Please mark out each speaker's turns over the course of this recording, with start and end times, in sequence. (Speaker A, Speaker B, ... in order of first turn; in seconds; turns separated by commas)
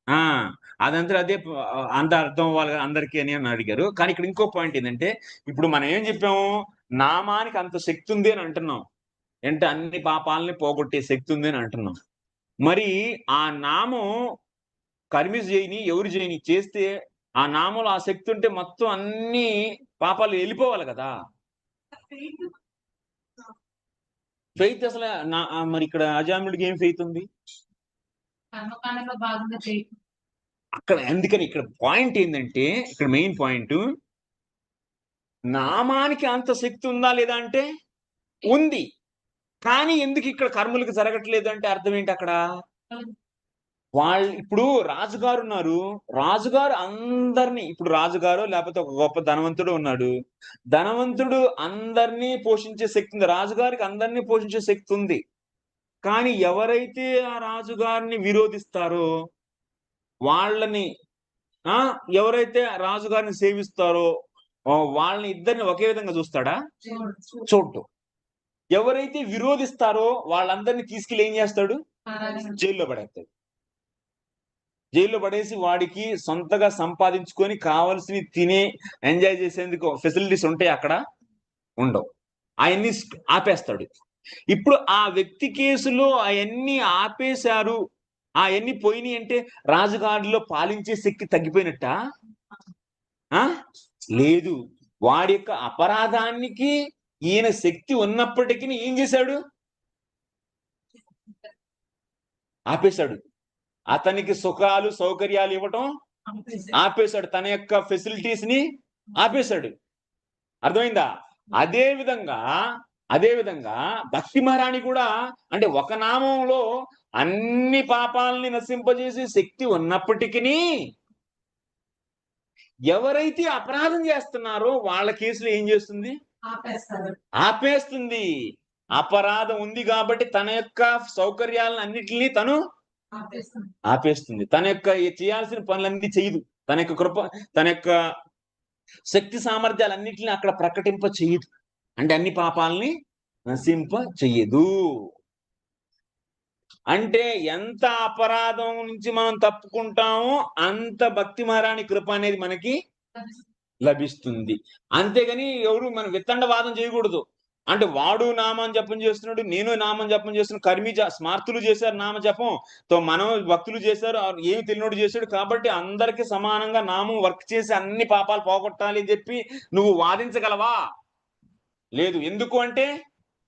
Speaker A: 0.9-1.4, Speaker A: 1.9-6.5, Speaker A: 7.0-8.8, Speaker A: 9.5-12.0, Speaker A: 12.7-14.1, Speaker A: 15.1-16.9, Speaker A: 17.4-21.1, Speaker B: 22.1-22.5, Speaker A: 24.6-27.3, Speaker B: 28.5-29.9, Speaker A: 30.8-33.8, Speaker A: 35.5-37.6, Speaker A: 38.5-38.9, Speaker A: 39.6-42.4, Speaker A: 44.0-50.1, Speaker A: 50.7-55.2, Speaker A: 56.0-59.1, Speaker A: 60.3-60.9, Speaker A: 61.7-64.1, Speaker A: 64.7-66.6, Speaker B: 66.8-67.5, Speaker A: 67.5-67.8, Speaker A: 68.8-71.8, Speaker B: 72.1-72.6, Speaker A: 72.3-73.3, Speaker A: 75.0-81.0, Speaker A: 81.8-82.0, Speaker A: 82.7-83.9, Speaker A: 84.5-87.8, Speaker A: 88.4-91.9, Speaker A: 94.1-96.7, Speaker A: 97.3-99.4, Speaker A: 102.7-103.2, Speaker A: 103.9-105.9, Speaker B: 106.3-106.8, Speaker A: 106.7-108.6, Speaker A: 109.2-109.7, Speaker A: 110.7-112.4, Speaker A: 113.1-116.6, Speaker A: 117.2-120.6, Speaker A: 122.9-126.2, Speaker B: 126.5-127.2, Speaker A: 127.4-128.3, Speaker A: 128.9-132.6, Speaker B: 133.1-133.7, Speaker A: 133.9-137.9, Speaker A: 139.1-141.5, Speaker A: 142.0-142.9, Speaker A: 143.5-144.7, Speaker A: 146.9-152.8, Speaker A: 153.9-170.8, Speaker A: 172.0-172.9